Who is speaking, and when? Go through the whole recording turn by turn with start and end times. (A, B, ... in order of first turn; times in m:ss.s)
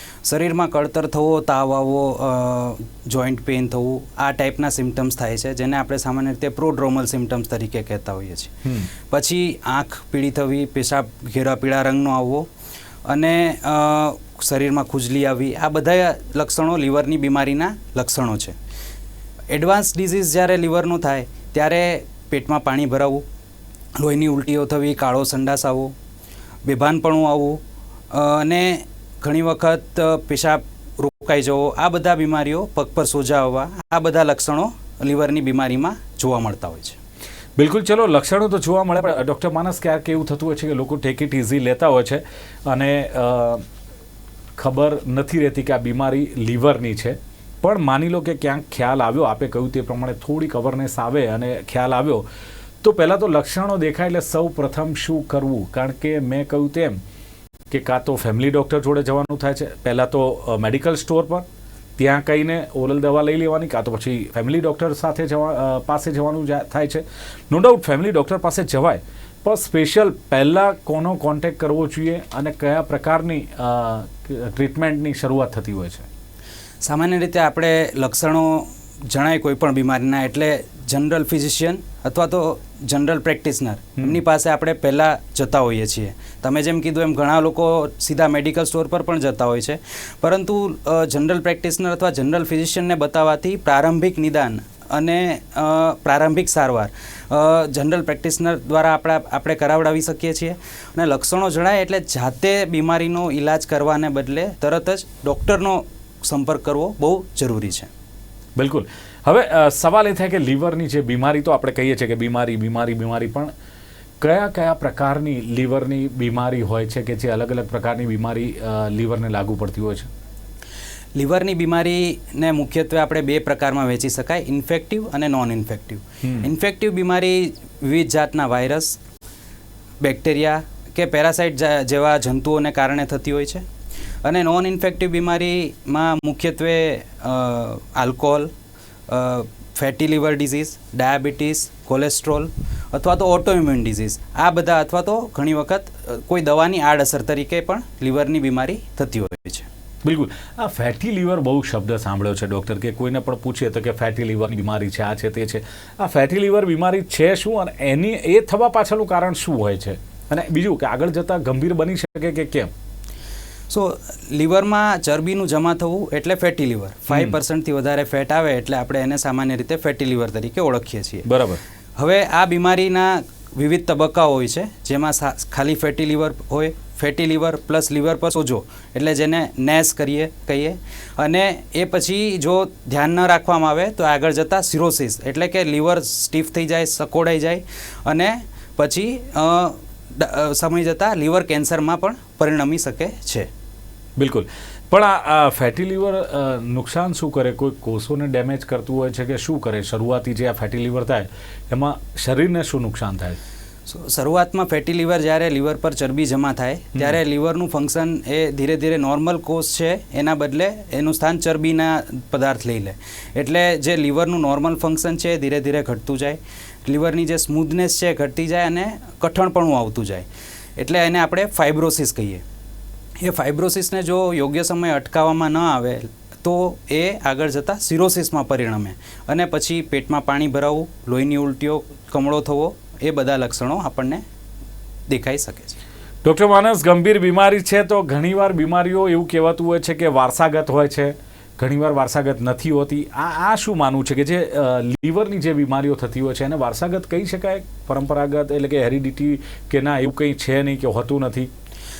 0:00.2-0:08.5 A
0:08.6-0:08.9 B
0:09.1-0:12.5 A
0:13.0-0:18.6 A
0:19.5-0:23.2 A
0:24.0-0:25.9 A
0:26.6-0:37.0 A
0:37.6-0:43.6 B
0:44.6-0:52.2 B
0:52.8-0:57.0 B
0:57.7-1:01.4 B
1:02.0-1:16.1 B
1:16.8-1:47.9 A
1:48.6-1:53.5 B
1:54.2-2:00.1 B
2:01.2-2:09.0 A
2:06.2-2:06.5 B
2:10.0-2:13.6 A
2:14.2-2:18.5 A
2:19.1-2:29.7 A
2:30.0-2:42.7 B
2:43.7-2:51.3 A
2:47.1-2:47.4 B
2:51.2-2:51.6 B
2:52.0-3:13.5 A
3:14.2-3:23.4 B
3:23.9-3:42.4 A
3:43.2-3:54.2 A
3:55.1-3:55.8 A
3:56.2-4:11.5 B